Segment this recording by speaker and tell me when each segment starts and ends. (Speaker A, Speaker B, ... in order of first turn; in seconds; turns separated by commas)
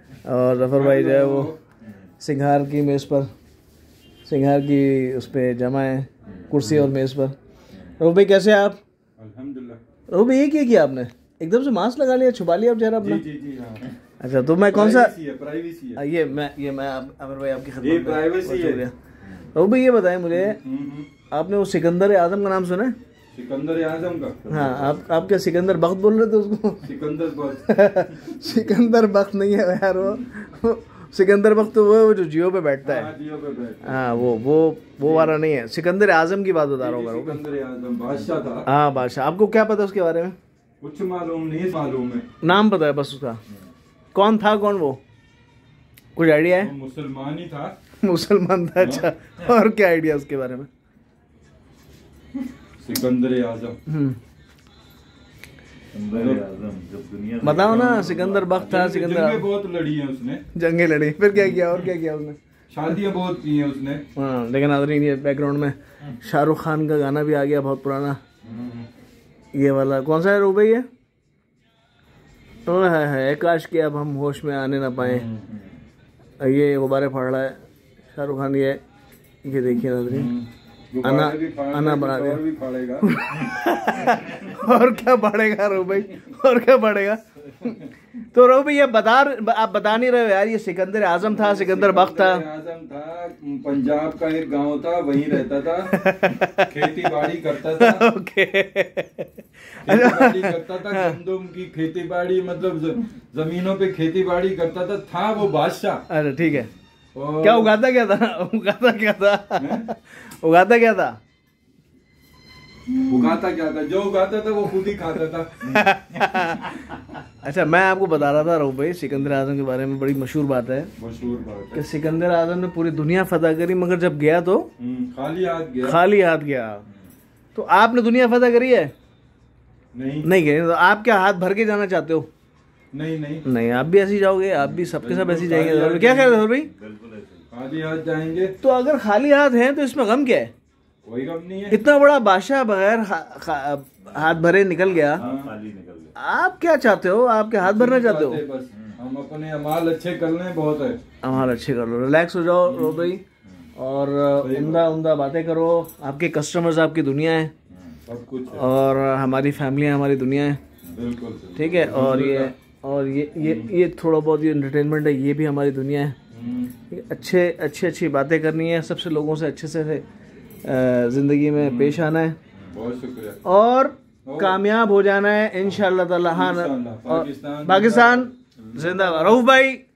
Speaker A: 0.2-1.5, Speaker B: 0.8-1.6, Speaker A: 2.2-3.3, Speaker A: 4.3-7.3, Speaker A: 8.0-8.8, Speaker B: 9.2-9.8, Speaker A: 10.1-13.2, Speaker B: 13.0-13.9, Speaker A: 14.2-15.1, Speaker B: 14.7-16.0, Speaker A: 16.0-18.9, Speaker B: 17.8-18.8, Speaker A: 19.5-20.6, Speaker B: 20.3-21.1, Speaker A: 21.3-22.9, Speaker B: 23.3-24.4, Speaker C: 24.5-25.0, Speaker A: 24.5-26.9, Speaker B: 26.8-28.0, Speaker A: 27.7-33.1, Speaker B: 32.8-34.0, Speaker A: 33.8-37.4, Speaker B: 35.0-35.4, Speaker B: 36.8-38.7, Speaker A: 38.7-40.4, Speaker B: 40.8-42.3, Speaker A: 42.4-43.4, Speaker A: 44.1-45.0, Speaker A: 46.2-46.7, Speaker B: 46.6-47.8, Speaker A: 48.0-50.7, Speaker B: 48.8-49.1, Speaker B: 52.8-53.8, Speaker A: 53.9-54.2, Speaker C: 55.9-58.4, Speaker B: 56.1-56.5, Speaker A: 57.4-59.5, Speaker B: 57.6-60.4, Speaker A: 60.5-62.4, Speaker B: 62.7-64.0, Speaker A: 64.2-68.2, Speaker B: 68.4-68.9, Speaker A: 69.5-70.9, Speaker A: 72.7-75.3, Speaker B: 75.0-75.5, Speaker A: 76.4-77.6, Speaker A: 78.1-78.8, Speaker A: 79.4-80.3, Speaker B: 80.1-83.2, Speaker A: 81.0-82.4, Speaker A: 83.0-87.8, Speaker B: 87.6-87.9, Speaker A: 88.3-92.5, Speaker B: 91.2-98.1, Speaker A: 95.9-97.1, Speaker A: 97.7-101.2, Speaker B: 99.8-106.0, Speaker A: 106.1-106.7, Speaker B: 107.2-107.8, Speaker A: 107.4-111.2, Speaker B: 109.6-109.9, Speaker B: 112.9-115.8, Speaker A: 115.6-116.8, Speaker A: 117.4-120.9, Speaker B: 121.0-121.8, Speaker A: 121.7-124.7, Speaker B: 124.8-126.0, Speaker A: 125.8-126.8, Speaker A: 127.5-128.9, Speaker B: 129.9-130.3, Speaker A: 130.2-132.3, Speaker B: 132.9-133.5, Speaker A: 133.4-136.7, Speaker B: 134.9-136.5, Speaker C: 136.6-137.4, Speaker B: 137.5-138.6, Speaker A: 138.6-140.5, Speaker B: 141.0-141.8, Speaker A: 141.7-145.2, Speaker C: 144.1-146.1, Speaker B: 145.2-145.5, Speaker A: 146.2-148.4, Speaker B: 147.6-151.0, Speaker C: 148.7-149.0, Speaker A: 151.2-153.2, Speaker C: 151.3-151.6, Speaker B: 152.7-153.1, Speaker A: 153.8-157.5, Speaker B: 154.4-154.8, Speaker C: 157.7-158.0, Speaker B: 158.1-158.7, Speaker A: 158.5-160.6, Speaker B: 160.9-162.5, Speaker A: 161.6-166.2, Speaker B: 163.4-163.7, Speaker B: 166.3-166.7, Speaker A: 166.9-170.0, Speaker A: 170.6-172.4, Speaker B: 171.6-172.0, Speaker B: 172.7-173.4, Speaker A: 173.4-179.8, Speaker B: 174.2-174.6, Speaker B: 176.3-178.3, Speaker C: 178.6-179.3